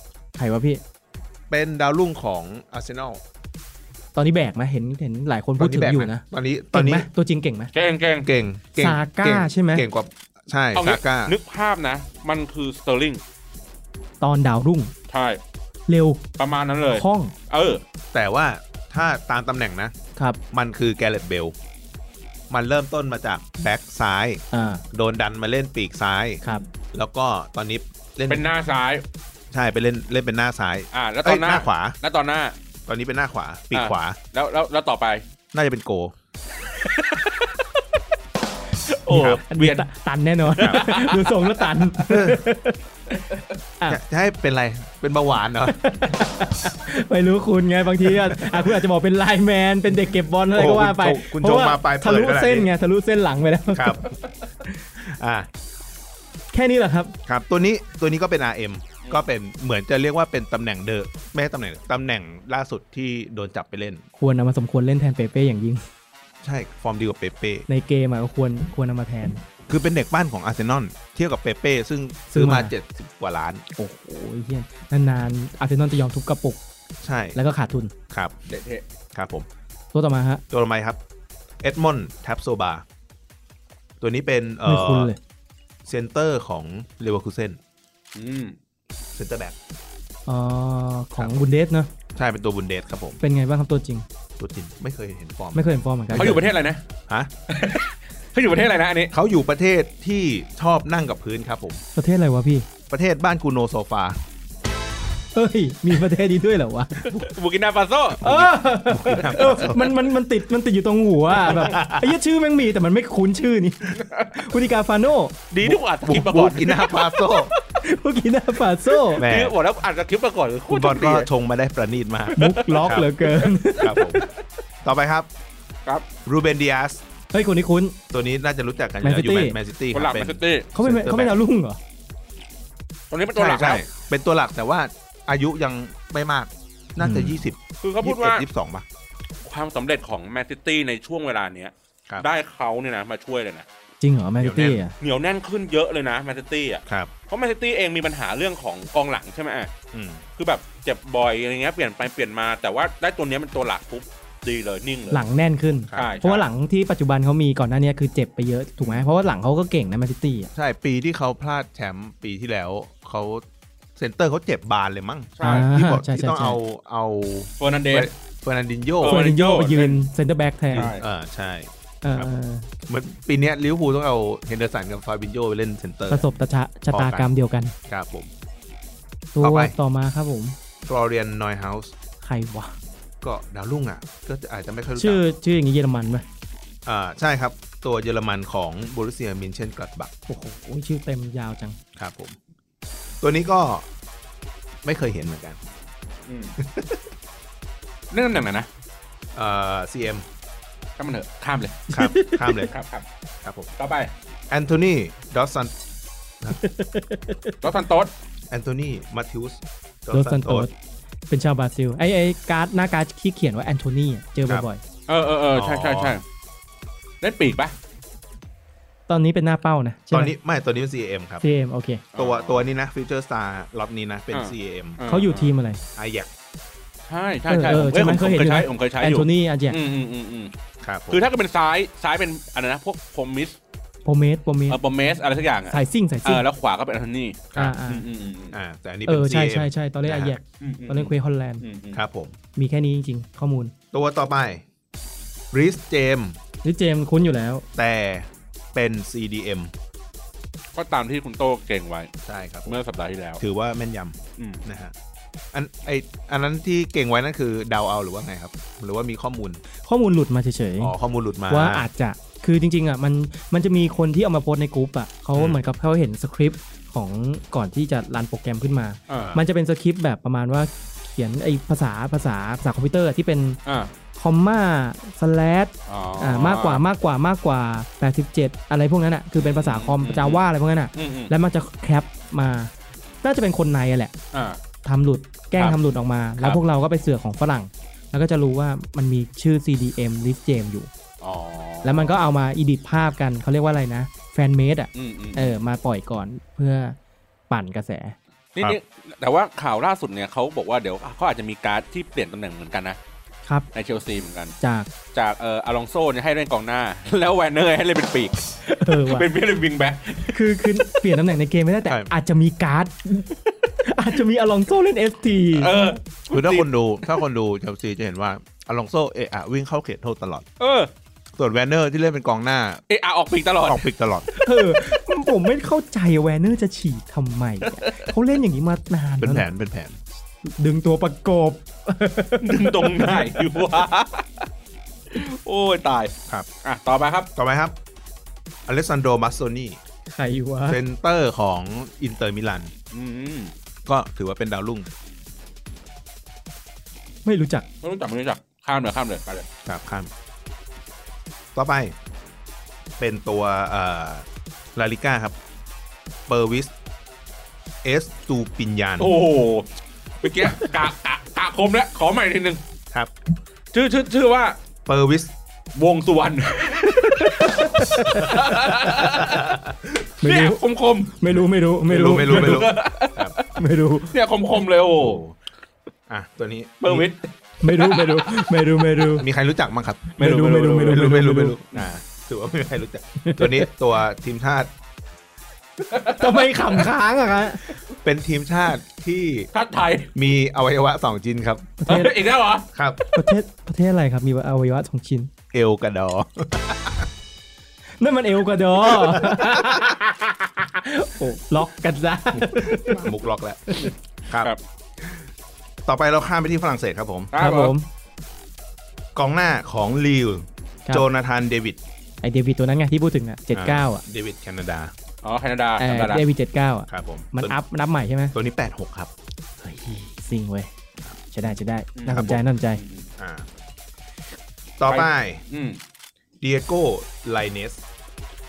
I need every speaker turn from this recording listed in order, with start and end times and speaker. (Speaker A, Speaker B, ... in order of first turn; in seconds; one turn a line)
Speaker A: 0.3-0.8
Speaker B: 1.5-3.2
Speaker A: 4.1-7.7
Speaker B: 5.6-7.1
Speaker C: 7.7-8.3
Speaker B: 8.2-11.3
Speaker A: 8.8-9.8
Speaker C: 10.8-13.2
Speaker A: 14.2-14.9
Speaker C: 15.1-15.4
Speaker A: 15.9-16.2
Speaker C: 16.4-17.8
Speaker A: 16.9-17.3
Speaker B: 18.1-19.9
Speaker B: 20.5-21.5
Speaker B: 22.5-26.4
Speaker A: 24.5-24.8
Speaker B: 26.9-28.4
Speaker C: 28.3-29.0
Speaker B: 29.5-31.9
Speaker C: 30.9-32.5
Speaker B: 32.9-34.2
Speaker C: 33.7-35.2
Speaker B: 35.5-36.1
Speaker C: 36.7-37.7
Speaker C: 38.9-39.9
Speaker B: 39.1-39.4
Speaker A: 39.1-42.8
Speaker C: 40.5-41.8
Speaker B: 40.6-40.9
Speaker B: 42.1-42.4
Speaker B: 43.9-45.8
Speaker A: 45.6-54.1
Speaker B: 48.0-48.7
Speaker B: 50.5-52.7
Speaker B: 53.7-54.1
Speaker B: 55.0-55.5
Speaker A: 56.5-57.1
Speaker B: 57.2-64.0
Speaker A: 64.2-65.8
Speaker B: 66.4-67.7
Speaker A: 67.7-69.4
Speaker B: 69.7-73.6
Speaker A: 72.3-72.7
Speaker A: 73.8-76.6
Speaker B: 77.0-77.4
Speaker A: 77.3-77.9
Speaker C: 78.5-78.8
Speaker B: 79.1-79.5
Speaker A: 79.9-80.4
Speaker B: 80.5-81.0
Speaker B: 81.6-82.8
Speaker B: 84.0-85.1
Speaker A: 84.6-85.2
Speaker B: 85.8-87.6
Speaker C: 88.1-88.5
Speaker B: 89.1-89.5
Speaker A: 90.3-91.9
Speaker B: 91.2-91.5
Speaker B: 92.2-93.2
Speaker A: 93.2-94.0
Speaker B: 94.4-96.5
Speaker A: 95.5-96.4
Speaker C: 96.1-96.8
Speaker C: 97.5-99.1
Speaker B: 99.1-101.8
Speaker A: 101.9-102.7
Speaker B: 102.9-104.2
Speaker A: 105.3-107.0
Speaker C: 107.0-108.2
Speaker B: 108.2-109.9
Speaker A: 108.2-115.4
Speaker B: 111.3-112.2
Speaker C: 114.0-114.5
Speaker B: 115.5-117.5
Speaker C: 115.5-117.0
Speaker A: 117.6-119.2
Speaker C: 119.1-121.3
Speaker B: 119.2-119.5
Speaker B: 120.7-123.1
Speaker A: 122.3-124.3
Speaker C: 122.4-123.5
Speaker B: 123.8-124.2
Speaker B: 124.8-125.3
Speaker B: 126.2-127.0
Speaker A: 127.3-128.0
Speaker B: 128.1-131.3
Speaker A: 129.0-129.6
Speaker C: 129.9-130.7
Speaker A: 130.7-131.8
Speaker C: 133.1-133.8
Speaker B: 133.3-138.8
Speaker A: 137.0-137.4
Speaker C: 137.8-138.4
Speaker C: 139.4-143.7
Speaker A: 144.0-144.9
Speaker B: 144.4-144.8
Speaker C: 145.0-149.7
Speaker B: 146.9-147.1
Speaker B: 149.9-150.2
Speaker C: 150.4-155.2
Speaker A: 155.1-160.5
Speaker B: 155.9-156.2
Speaker C: 155.9-156.4
Speaker B: 160.5-163.4
Speaker B: 163.9-169.2
Speaker C: 165.4-165.7
Speaker A: 165.4-166.6
Speaker C: 167.6-168.1
Speaker C: 169.0-170.0
Speaker A: 169.0-170.9
Speaker C: 170.7-171.0
Speaker B: 170.7-172.3
Speaker A: 172.0-172.7
Speaker B: 172.9-176.2
Speaker A: 176.1-177.7
Speaker B: 176.9-177.3
Speaker B: 177.9-178.3
Speaker A: 179.3-180.6
Speaker B: 179.4-179.7
Speaker B: 180.8-181.9
Speaker A: 182.2-182.7
Speaker B: 183.2-185.2
Speaker A: 185.0-186.2
Speaker B: 186.8-190.1
Speaker A: 190.3-191.8
Speaker B: 191.9-192.4
Speaker B: 193.2-193.8
Speaker B: 194.8-195.6
Speaker C: 196.3-196.6
Speaker B: 196.6-197.0
Speaker C: 198.1-198.7
Speaker B: 199.3-200.2
Speaker C: 201.0-201.9
Speaker A: 201.9-202.7
Speaker B: 201.9-202.7
Speaker C: 202.7-203.0
Speaker B: 203.4-203.7
Speaker C: 203.8-204.1
Speaker B: 204.5-205.7
Speaker A: 206.6-207.5
Speaker C: 207.6-208.1
Speaker B: 208.5-210.7
Speaker A: 210.1-210.7
Speaker A: 211.3-214.8
Speaker C: 215.1-216.2
Speaker B: 215.5-216.1
Speaker C: 217.2-217.7
Speaker A: 219.1-220.3
Speaker B: 220.1-221.4
Speaker A: 221.4-222.0
Speaker C: 222.1-222.6
Speaker B: 222.1-225.0
Speaker C: 224.3-225.5
Speaker A: 225.1-225.8
Speaker B: 225.9-226.3
Speaker C: 227.1-230.5
Speaker A: 227.5-229.8
Speaker B: 230.8-231.2
Speaker C: 231.1-233.6
Speaker A: 234.0-234.8
Speaker C: 234.7-238.6
Speaker A: 235.7-236.4
Speaker A: 237.5-238.0
Speaker B: 238.5-240.3
Speaker A: 239.1-241.6
Speaker C: 240.6-242.0
Speaker B: 241.9-242.3
Speaker A: 242.6-243.7
Speaker B: 243.9-244.6
Speaker B: 245.5-246.3
Speaker A: 246.6-247.7
Speaker B: 247.8-249.7
Speaker C: 250.7-252.1
Speaker B: 252.2-252.8
Speaker C: 252.7-253.4
Speaker B: 253.4-254.9
Speaker C: 254.4-254.6
Speaker B: 255.5-259.6
Speaker A: 259.8-260.9
Speaker B: 260.8-261.9
Speaker A: 261.5-273.6
Speaker B: 265.3-265.6
Speaker C: 269.1-269.4
Speaker C: 273.6-273.9
Speaker A: 274.1-282.7
Speaker C: 275.9-276.8
Speaker C: 279.4-280.4
Speaker C: 280.9-281.3
Speaker A: 283.2-284.1
Speaker C: 284.3-284.6
Speaker A: 284.8-290.9
Speaker C: 291.2-292.2
Speaker A: 291.8-296.9
Speaker C: 294.9-295.5
Speaker A: 297.5-298.1
Speaker C: 298.5-303.0
Speaker C: 303.7-304.6
Speaker A: 304.6-304.9
Speaker C: 305.1-310.6
Speaker A: 308.6-309.3
Speaker A: 310.3-313.3
Speaker A: 313.8-315.7
Speaker C: 315.6-317.1
Speaker B: 316.3-320.4
Speaker C: 320.6-320.9
Speaker B: 321.4-322.8
Speaker C: 322.9-323.9
Speaker B: 323.6-324.3
Speaker A: 324.3-329.4
Speaker C: 327.7-328.1
Speaker B: 329.2-330.0
Speaker A: 330.4-333.4
Speaker C: 332.4-334.5
Speaker C: 335.1-337.3
Speaker B: 337.4-337.8
Speaker B: 338.6-339.8
Speaker A: 340.1-340.8
Speaker B: 340.7-342.7
Speaker C: 342.9-343.5
Speaker B: 343.9-344.9
Speaker A: 347.2-347.6
Speaker C: 347.8-349.5
Speaker B: 349.6-350.1
Speaker B: 351.5-351.9
Speaker B: 353.0-355.4
Speaker B: 356.3-356.7
Speaker B: 357.8-359.2
Speaker C: 359.0-359.7
Speaker C: 360.2-362.6
Speaker C: 363.7-364.6
Speaker B: 364.9-365.3
Speaker C: 365.7-369.5
Speaker A: 367.0-368.5
Speaker B: 368.1-369.9
Speaker C: 370.2-371.2
Speaker A: 370.2-372.7
Speaker B: 371.9-373.4
Speaker C: 372.2-373.5
Speaker A: 373.5-374.1
Speaker C: 374.1-375.2
Speaker B: 375.0-375.3
Speaker B: 376.1-377.1
Speaker C: 376.8-378.6
Speaker A: 377.6-379.2
Speaker B: 379.2-380.2
Speaker C: 380.2-381.9
Speaker A: 380.2-381.6
Speaker B: 380.8-384.7
Speaker A: 383.2-383.7
Speaker C: 385.9-386.8
Speaker A: 386.1-387.7
Speaker B: 388.0-389.5
Speaker C: 389.5-390.1
Speaker B: 390.1-391.7
Speaker A: 391.8-392.2
Speaker C: 391.9-392.7
Speaker B: 392.7-393.0
Speaker A: 393.1-395.3
Speaker B: 395.5-397.1
Speaker A: 398.0-403.1
Speaker B: 398.9-399.8
Speaker B: 402.3-405.2
Speaker A: 403.7-403.9
Speaker B: 405.8-407.3
Speaker C: 407.3-407.7
Speaker A: 407.4-407.9
Speaker B: 409.1-411.8
Speaker A: 412.2-414.0
Speaker B: 413.5-414.9
Speaker C: 415.2-416.2
Speaker A: 415.8-418.3
Speaker B: 416.9-417.6
Speaker B: 418.3-419.1
Speaker A: 419.6-420.7
Speaker A: 421.3-422.8
Speaker C: 422.0-423.1
Speaker B: 422.1-422.4
Speaker B: 423.2-423.5
Speaker B: 424.8-425.4
Speaker C: 424.9-425.8
Speaker B: 426.4-427.8